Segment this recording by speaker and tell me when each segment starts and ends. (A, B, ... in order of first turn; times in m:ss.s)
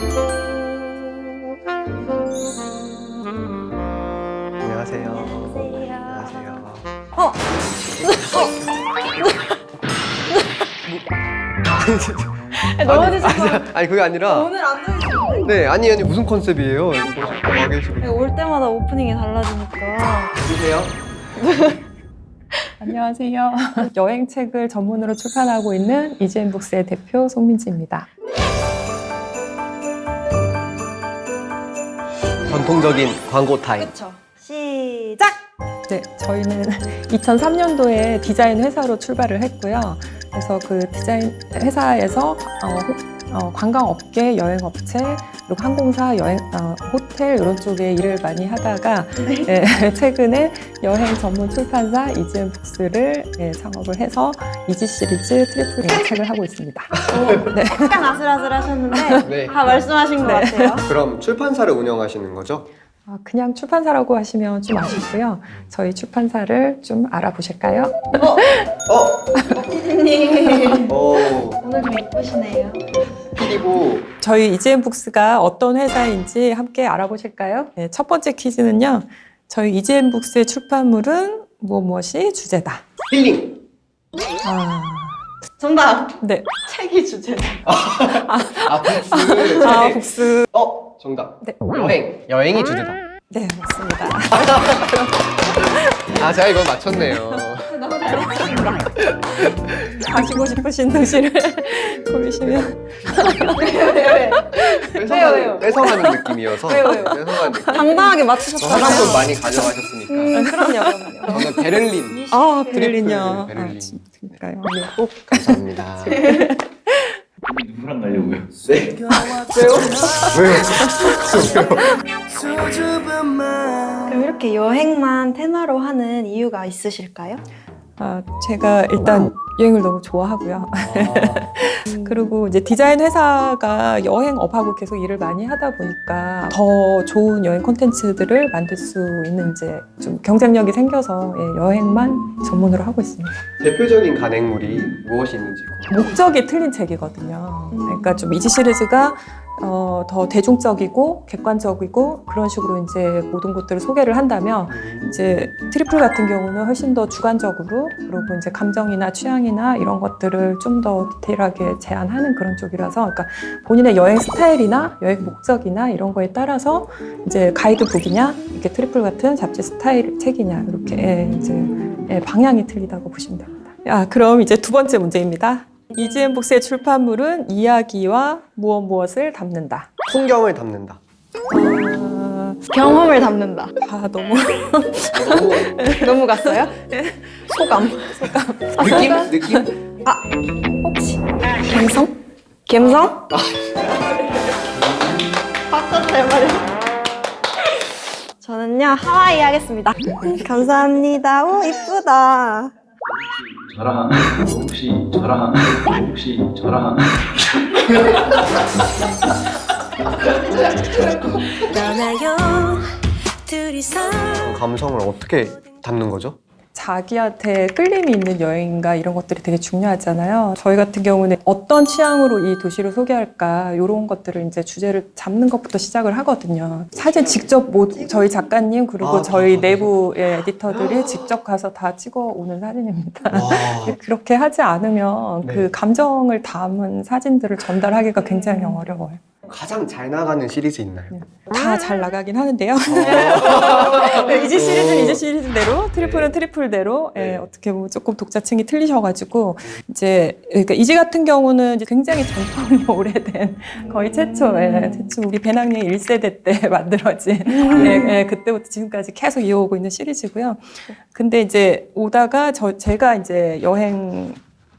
0:04.6-0:06.8 A
0:05.2-0:06.3 B
0:07.1-0:07.4 B
0:08.0-0:08.5 B
0:09.2-0:09.6 B
0:10.3-0:10.6 B
0:11.7-0:14.5 A
0:12.6-0:13.6 B
0:14.3-0:15.6 B
0:15.4-0:18.3 A
0:18.0-0:20.3 B
0:20.3-0:20.9 A
0:21.4-0:21.8 B
0:22.8-0:28.1 C
0:32.5-0:33.9 A
0:33.8-0:35.4 B
0:35.9-0:58.0 C
0:49.2-0:49.5 B
0:57.1-1:00.9 B
0:58.9-0:59.2 C
0:59.2-0:59.6 A
1:00.2-1:00.8 C
1:00.8-1:02.7 A
1:03.0-1:08.7 C
1:08.2-1:08.4 B
1:08.9-1:09.3 A
1:09.5-1:12.8 B
1:10.8-1:11.6 A
1:13.3-1:14.1 A
1:14.2-1:22.8 C
1:23.1-1:23.6 A
1:24.4-1:25.2 C
1:25.6-1:27.6 B
1:26.2-1:26.5 C
1:27.6-1:33.0 A
1:28.1-1:30.5 C
1:31.4-1:31.8 C
1:33.3-1:35.8 C
1:34.3-1:35.1 A
1:36.1-1:37.8 A
1:37.0-1:37.4 C
1:37.7-1:38.9 B
1:39.3-1:40.0 A
1:39.7-1:45.0 C
1:42.4-1:43.4 A
1:43.5-1:45.8 B
1:44.7-1:48.0 A
1:45.8-1:46.1 C
1:46.6-1:48.1 C
1:46.7-1:49.3 B
1:48.6-1:50.4 A
1:48.8-1:49.1 C
1:50.1-1:51.5 B
1:50.3-1:51.6 C
1:51.3-1:54.1 A
1:52.1-1:52.9 B
1:52.3-1:57.2 C
1:55.3-1:56.2 A
1:56.1-1:56.5 B
1:57.4-1:59.4 D
1:59.3-2:00.8 B
2:00.3-2:01.9 A
2:04.0-2:07.4 B
2:08.0-2:23.4 C
2:23.6-2:26.0 A
2:25.9-2:59.9 C
2:27.7-2:28.3 B
2:34.7-2:35.4 A
3:00.1-3:01.0 A
3:01.5-3:02.6 C
3:02.7-3:03.7 B
3:03.8-3:09.7 C
3:05.1-3:05.7 A
3:05.2-3:06.7 B
3:07.5-3:08.2 B
3:08.8-3:09.7 A
3:08.8-3:09.2 B
3:10.8-3:12.1 B
3:12.7-3:13.3 B
3:13.3-3:13.9 A
3:14.7-3:15.3 D
3:15.7-3:16.7 B
3:18.4-3:22.7 B
3:23.1-3:28.9 D
3:31.6-3:34.5 E
3:34.4-3:36.4 A
3:36.7-3:59.2 C
3:49.0-3:50.0 A
3:53.3-3:54.0 A
3:55.4-3:55.7 A
3:58.2-3:58.7 B
3:59.4-4:01.1 A
4:01.1-4:24.4 C
4:02.8-4:05.2 A
4:06.0-4:06.3 A
4:07.1-4:07.4 A
4:14.4-4:14.9 B
4:17.5-4:18.1 B